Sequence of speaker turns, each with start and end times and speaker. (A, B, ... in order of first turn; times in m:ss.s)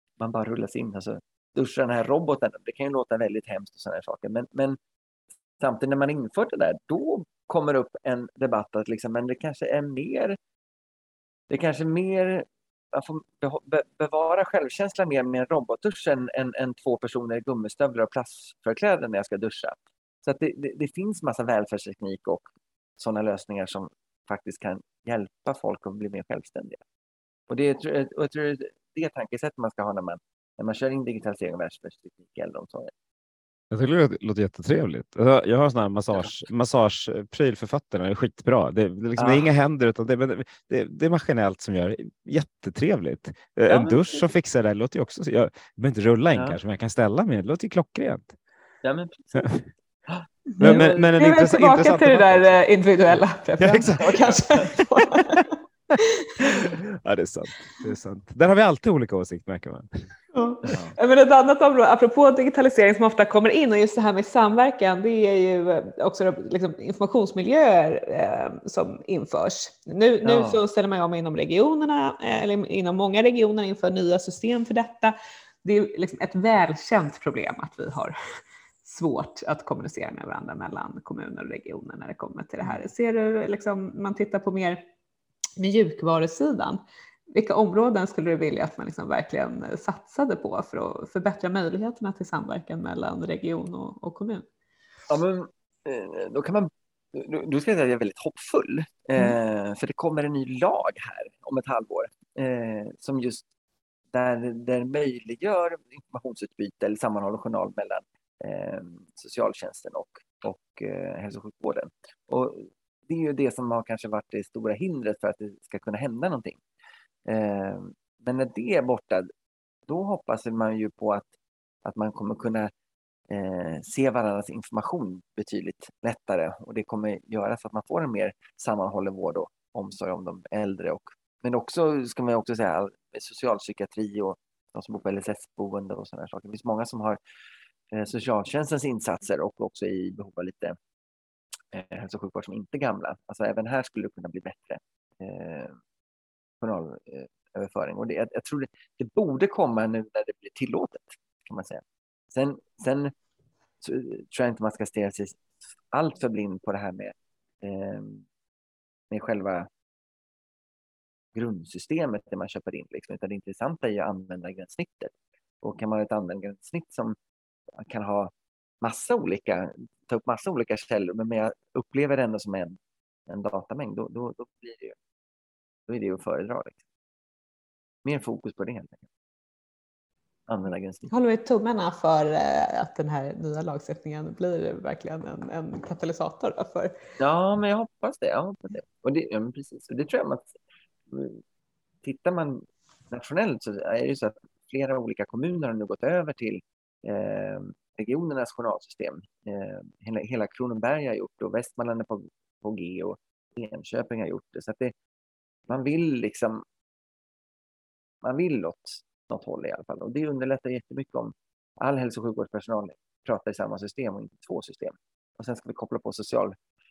0:00.2-0:04.8 A
0:05.6-0:10.4 A
0:11.5-0:26.8 A
0:27.5-0:32.9 A
0:33.7-0:48.3 B
0:39.2-0:39.5 A
0:43.7-0:44.3 A
0:46.3-0:46.6 A
0:48.8-0:51.1 A
0:50.5-0:56.5 C
0:50.6-0:52.6 B
0:53.1-0:54.6 B
0:54.0-0:54.7 A
0:55.9-1:00.1 B
1:00.3-1:18.2 C
1:00.6-1:00.9 A
1:10.2-1:10.6 A
1:18.8-1:24.8 C
1:25.6-1:34.4 C
1:35.1-1:43.5 A
1:44.1-1:56.6 A
1:57.2-1:59.3 A
1:59.9-2:01.3 A
2:01.8-2:02.7 A
2:03.3-2:17.2 A
2:17.9-2:20.8 A
2:21.7-2:25.8 A
2:26.6-2:33.1 A
2:33.8-2:38.2 A
2:39.1-2:39.7 A
2:41.3-2:47.2 A
2:47.8-2:55.0 A
2:55.9-2:56.8 A
2:58.0-2:59.1 A
3:00.5-3:01.1 A
3:01.1-3:07.0 C
3:07.2-3:10.5 A
3:11.1-3:11.4 A
3:12.0-3:24.9 A
3:25.7-3:26.6 A
3:28.2-3:36.6 A